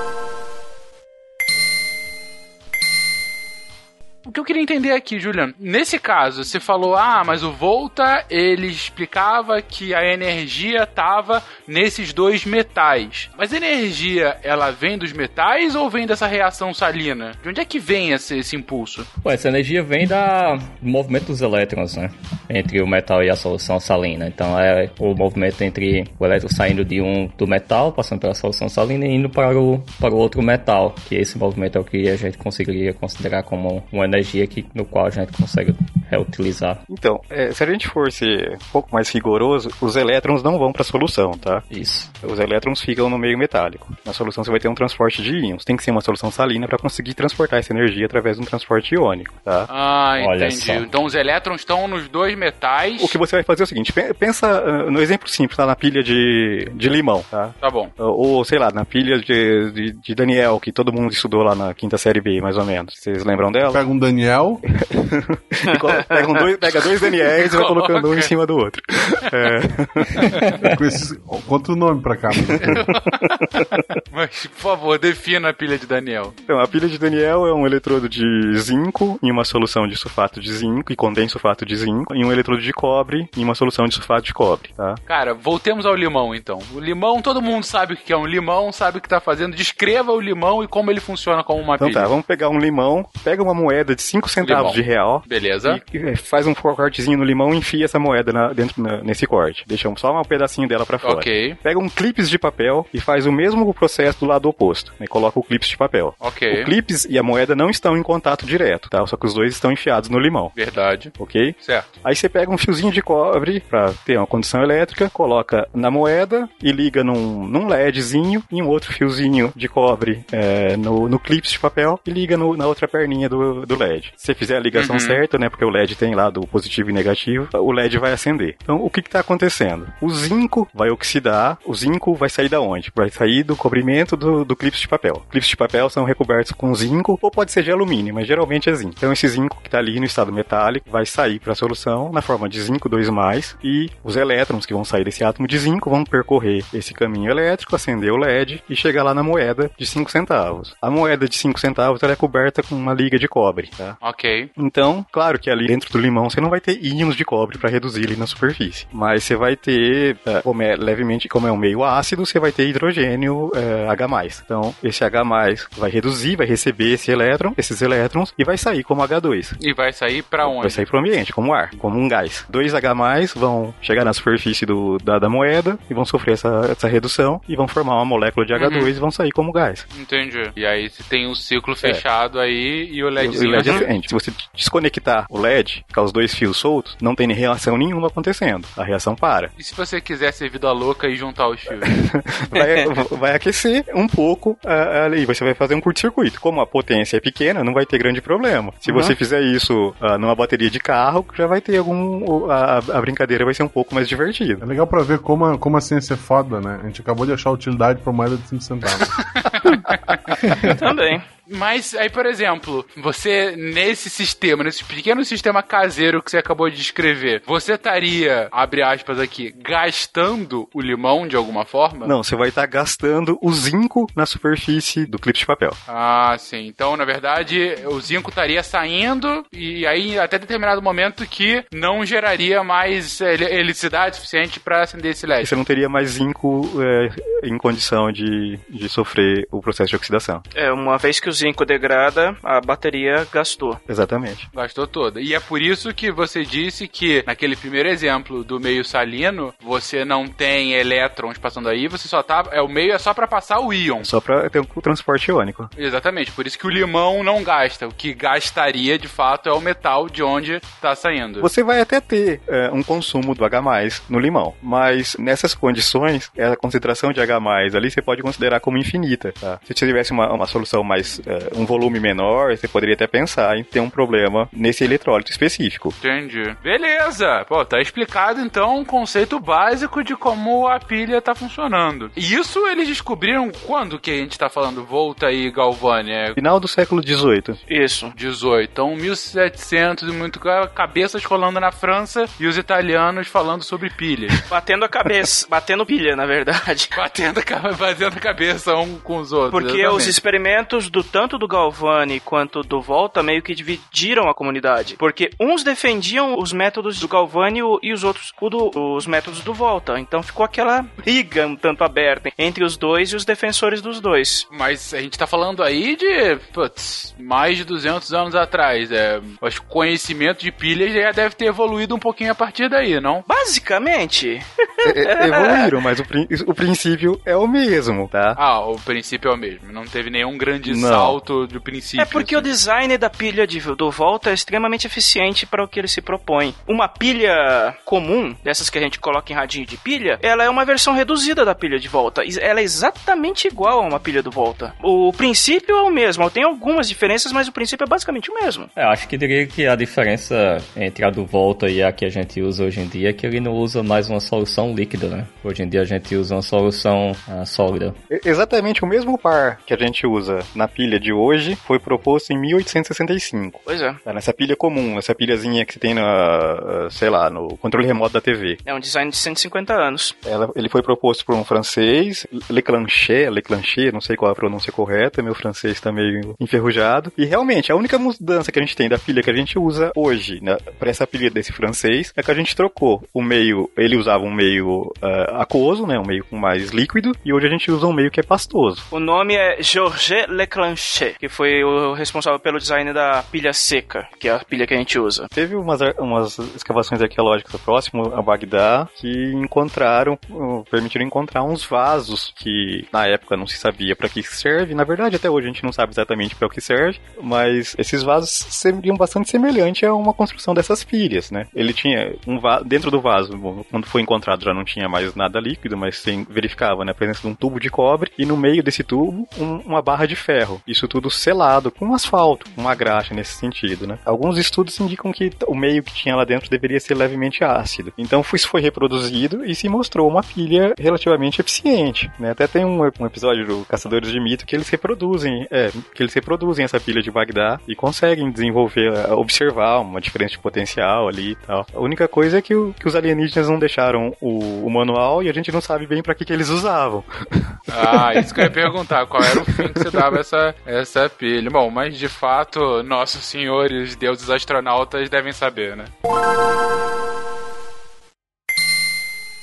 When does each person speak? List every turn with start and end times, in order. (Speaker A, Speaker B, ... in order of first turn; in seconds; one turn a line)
Speaker A: 4.2-19.1
Speaker B: 19.2-36.8
Speaker C: 36.9-41.6
Speaker B: 41.7-42.1
Speaker C: 42.2-49.7
Speaker A: 49.7-53.2
Speaker B: 50.2-50.9
Speaker C: 53.0-63.8
Speaker A: 57.6-57.9
Speaker D: 63.7-64.6
Speaker C: 64.7-70.3
Speaker E: 65.7-66.4
Speaker A: 67.4-68.3
Speaker D: 70.6-72.9
Speaker A: 72.6-76.3
Speaker C: 76.5-85.0
Speaker A: 85.1-92.1
Speaker C: 91.8-110.5
Speaker A: 94.4-95.8
Speaker A: 101.0-101.6
Speaker A: 106.2-106.7
Speaker A: 110.6-111.9
Speaker C: 111.2-154.0
Speaker A: 124.7-125.2
Speaker A: 154.0-154.5
Speaker C: 154.6-169.6
Speaker A: 169.6-170.8
Speaker C: 170.4-179.9
Speaker A: 178.6-178.9
Speaker A: 179.9-183.9
Speaker C: 183.2-189.5
Speaker E: 183.6-183.8
Speaker A: 189.6-191.9
Speaker C: 191.7-204.6
Speaker E: 192.6-192.9
Speaker E: 198.8-199.2
Speaker D: 204.6-209.2
Speaker A: 209.2-210.7
Speaker E: 210.6-211.3
Speaker A: 211.5-222.1
Speaker C: 222.0-225.8
Speaker A: 225.9-235.5
Speaker C: 235.4-240.4
Speaker E: 240.6-243.8
Speaker C: 243.9-244.5
Speaker A: 244.5-254.1
Speaker C: 254.0-255.7
Speaker A: 255.8-261.5
Speaker C: 261.4-275.9
Speaker A: 276.0-286.4
Speaker C: 286.4-287.6
Speaker E: 287.7-288.1
Speaker A: 288.1-294.5
Speaker E: 294.5-297.0
Speaker A: 296.9-300.2
Speaker E: 299.5-314.5
Speaker A: 314.5-323.2
Speaker E: 323.3-325.7
Speaker C: 324.8-328.4
Speaker A: 328.4-332.5
Speaker C: 330.6-331.2
Speaker E: 332.0-348.7
Speaker B: 348.8-358.0
Speaker C: 358.1-368.6
Speaker E: 363.7-364.0
Speaker E: 368.6-370.2
Speaker C: 370.2-388.9
Speaker E: 388.9-395.3
Speaker C: 395.3-448.1
Speaker A: 447.7-455.9
Speaker C: 449.2-450.1